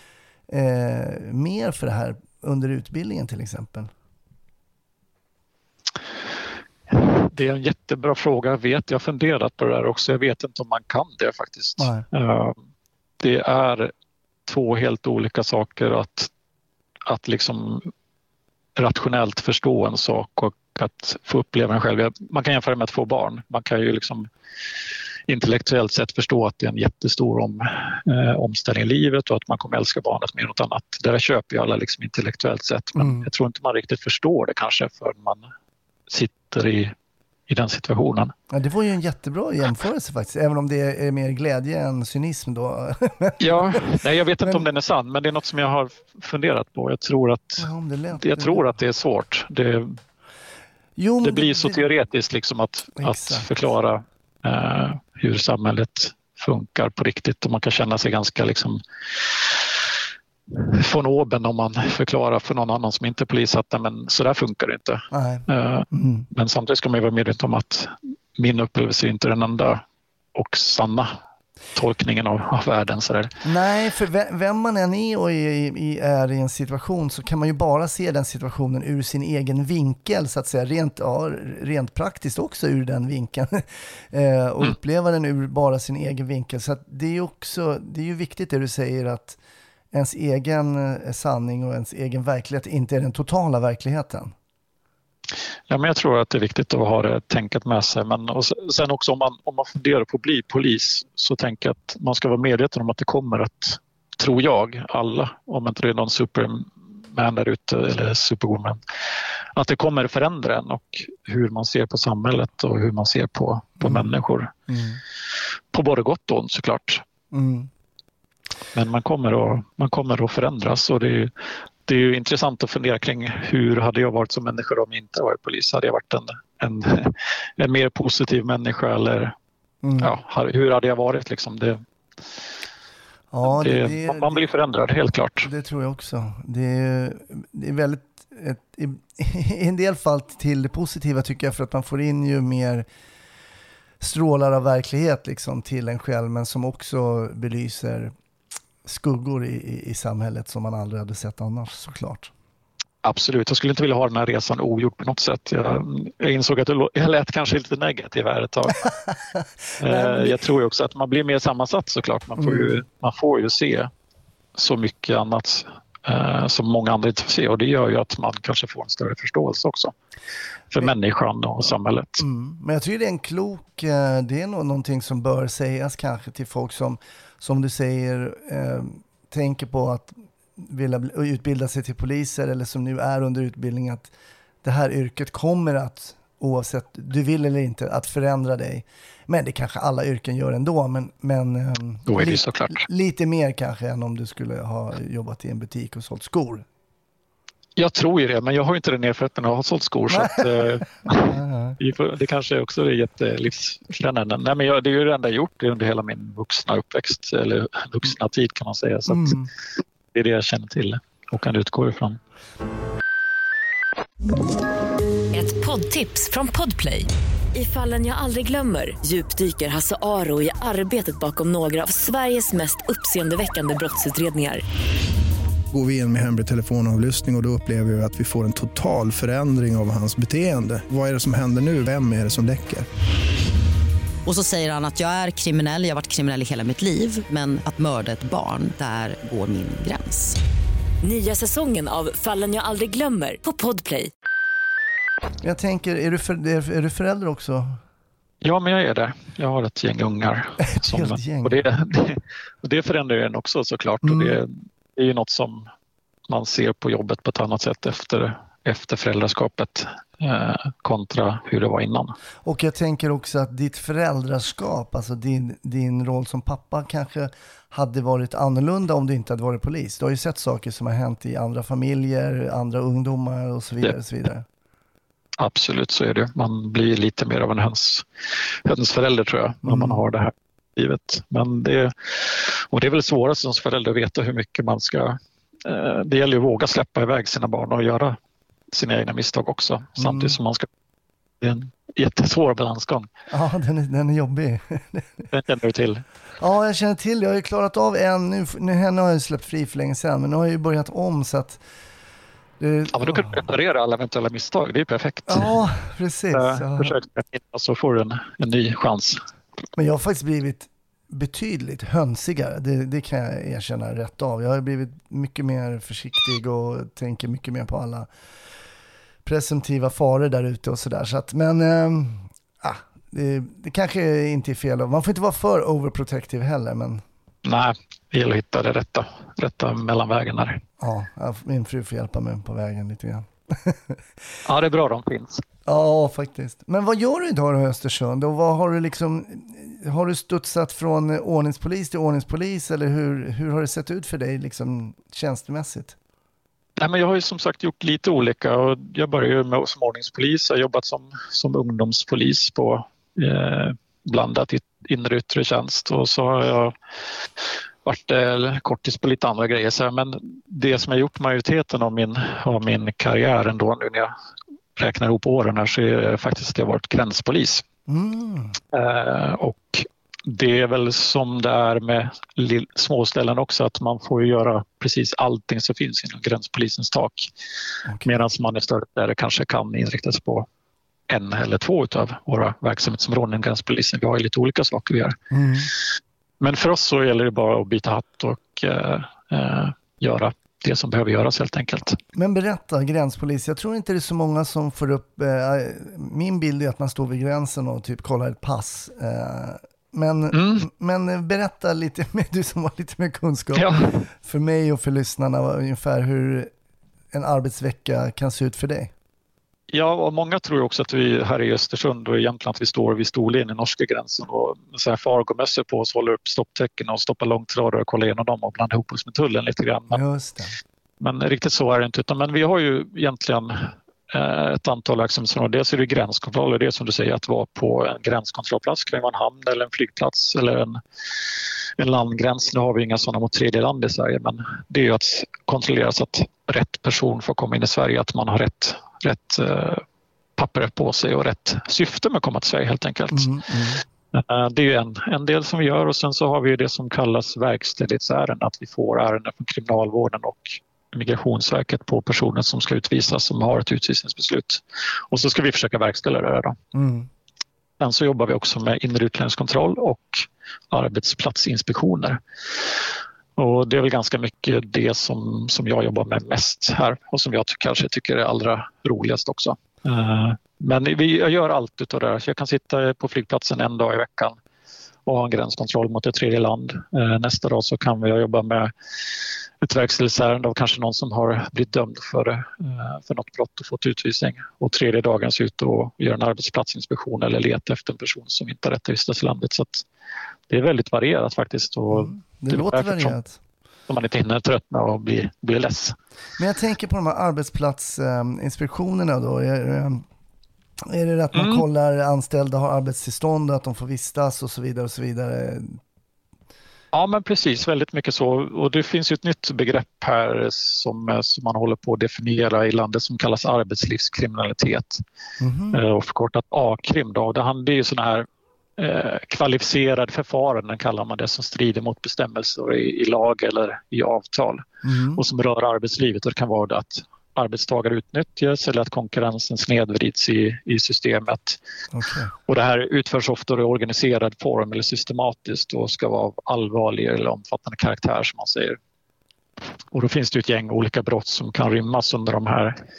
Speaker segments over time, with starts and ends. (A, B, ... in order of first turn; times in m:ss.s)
0:00.5-0:03.9 A
0:06.9-0:12.6 B
0:11.8-0:12.0 A
0:13.2-0:13.9 B
0:14.5-0:16.3 B
0:17.1-0:17.9 B
0:18.8-0:24.3 B
0:25.3-0:35.5 B
0:33.0-0:33.3 A
0:36.1-0:36.9 B
0:37.5-0:38.3 B
0:38.5-0:43.8 A
0:43.4-0:50.0 B
0:47.6-0:48.6 A
0:51.0-0:51.8 A
0:51.2-0:59.8 B
0:53.0-0:53.5 A
1:00.5-1:09.8 B
1:05.1-1:06.3 A
1:10.3-1:11.1 B
1:11.7-1:13.3 B
1:13.4-1:29.4 A
1:29.9-1:34.3 A
1:35.7-1:48.8 B
1:49.6-1:54.5 B
1:54.7-1:55.0 A
1:55.7-1:57.0 B
1:57.3-1:57.7 A
1:58.7-2:01.3 B
2:01.8-2:09.3 B
2:09.8-2:10.1 A
2:10.0-2:11.8 B
2:13.3-2:14.4 A
2:13.4-2:15.5 B
2:15.4-2:22.8 A
2:24.0-2:28.1 A
2:28.8-2:32.3 A
2:33.0-2:38.8 B
2:38.8-2:40.3 A
2:39.8-2:43.9 B
2:42.4-2:42.8 A
2:44.6-2:49.9 B
2:50.7-2:52.2 B
2:52.2-3:04.1 A
3:04.6-3:16.6 A
3:12.1-3:12.8 B
3:17.8-3:29.4 B
3:20.1-3:21.8 A
3:29.1-3:29.5 A
3:30.1-3:32.2 B
3:35.3-3:44.6 C
3:45.7-3:52.8 D
3:54.2-4:00.4 E
4:01.0-4:04.1 C
4:05.4-4:07.8 A
4:08.4-4:15.7 B
4:10.7-4:11.6 A
4:14.0-4:14.4 A
4:16.3-4:22.1 B
4:22.4-4:34.4 A
4:35.4-4:48.2 B
4:39.6-4:40.0 A
4:48.7-4:50.7 B
4:50.0-4:50.4 A
4:51.4-4:53.1 B
4:53.3-4:55.3 A
4:55.3-4:56.0 B
4:56.4-5:01.6 A
5:02.6-5:03.4 A
5:02.9-5:05.6 B
5:05.3-5:06.9 A
5:06.3-5:09.2 B
5:09.8-5:18.1 A
5:19.2-5:27.0 A
5:27.4-5:30.6 B
5:30.8-5:34.0 A
5:34.4-5:35.4 B
5:35.6-5:46.0 A
5:46.8-5:56.7 B
5:57.8-6:04.1 B
6:04.8-6:07.6 B
6:07.9-6:08.6 A
6:08.7-6:17.3 B
6:17.9-6:18.1 A
6:18.0-6:20.5 B
6:21.1-6:25.2 B
6:25.3-6:25.7 A
6:26.4-6:32.0 B
6:32.1-6:46.5 A
6:40.3-6:40.6 B
6:43.5-6:44.0 B
6:47.1-6:48.9 A
6:49.7-7:00.0 B
6:59.9-7:00.5 A
7:01.0-7:10.8 B
7:11.8-7:19.8 B
7:20.4-7:23.3 B
7:23.1-7:23.8 A
7:24.1-7:36.6 B
7:36.7-7:37.1 A
7:37.8-7:42.2 B
7:43.4-7:54.4 B
7:55.0-8:09.8 B
8:10.5-8:13.2 B
8:11.9-8:13.4 A
8:13.9-8:16.0 B
8:16.4-8:20.0 A
8:20.8-8:25.8 A
8:21.3-8:21.6 B
8:26.9-8:35.0 B
8:35.4-8:35.8 A
8:35.7-8:44.6 B
8:44.8-8:45.2 A
8:45.1-8:51.6 B
8:51.9-8:52.3 A
8:52.4-8:58.8 B
8:59.9-9:02.8 B